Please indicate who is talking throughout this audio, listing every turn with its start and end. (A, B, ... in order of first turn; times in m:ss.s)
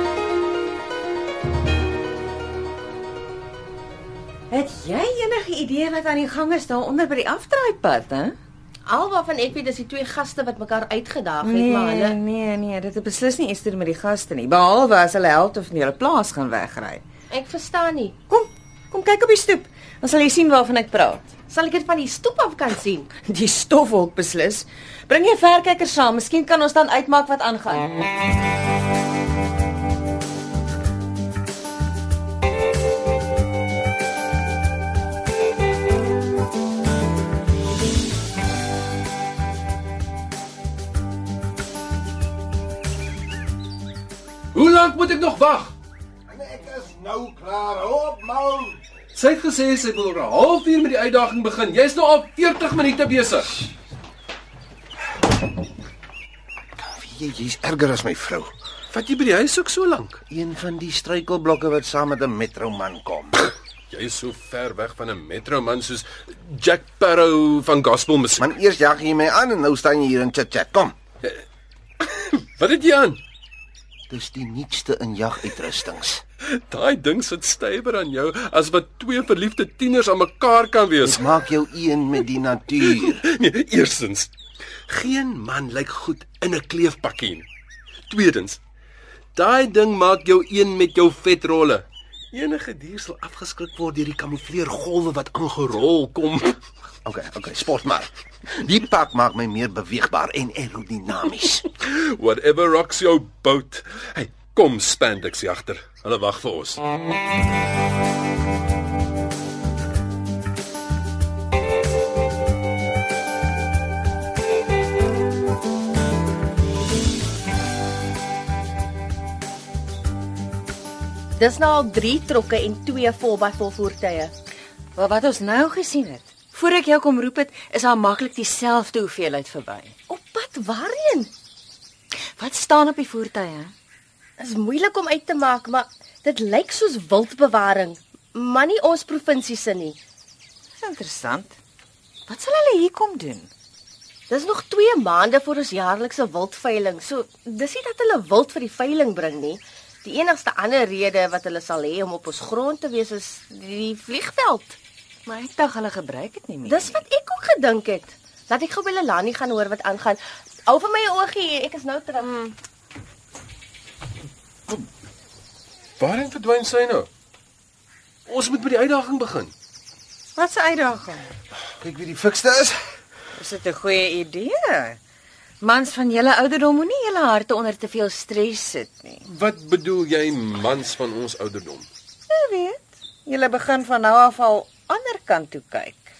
0:04.5-0:08.4 A
0:08.9-0:12.2 B
0:11.4-0:17.0 A
0:17.3-0:18.2 B
0:18.3-0:21.3 A
0:21.5-0:23.2 B
0:23.2-0:27.9 A
0:44.5-0:45.7 C
0:46.3-0:48.8 D
0:49.1-0:53.5 C
0:56.8-0:58.5 D
0:58.9-1:00.2 C
1:00.3-1:03.5 D
1:03.9-1:08.5 C
1:08.4-1:11.0 D
1:12.1-1:13.2 C
1:14.1-1:16.2 D
1:16.5-1:21.3 C
1:21.0-1:23.2 D
1:22.8-1:24.3 C
1:24.9-1:27.5 C
1:28.1-1:28.6 C
1:29.4-1:36.6 C
1:37.0-1:41.7 D
1:41.8-1:46.8 C
2:01.4-2:04.3 B
2:05.0-2:10.0 A
2:10.1-2:11.3 B
2:12.4-2:13.7 A
2:14.4-2:20.0 B
2:20.8-2:21.6 A
2:22.3-2:23.5 A
2:24.3-2:34.8 B
2:35.3-2:37.0 A
2:36.7-2:42.3 B
2:42.2-2:42.5 A
2:46.0-2:47.1 C
2:48.3-2:49.5 C
2:50.4-2:51.3 A
2:51.8-2:52.8 D
2:53.4-2:55.0 A
2:55.6-2:59.2 A
2:59.3-3:01.9 C
3:02.3-3:06.1 A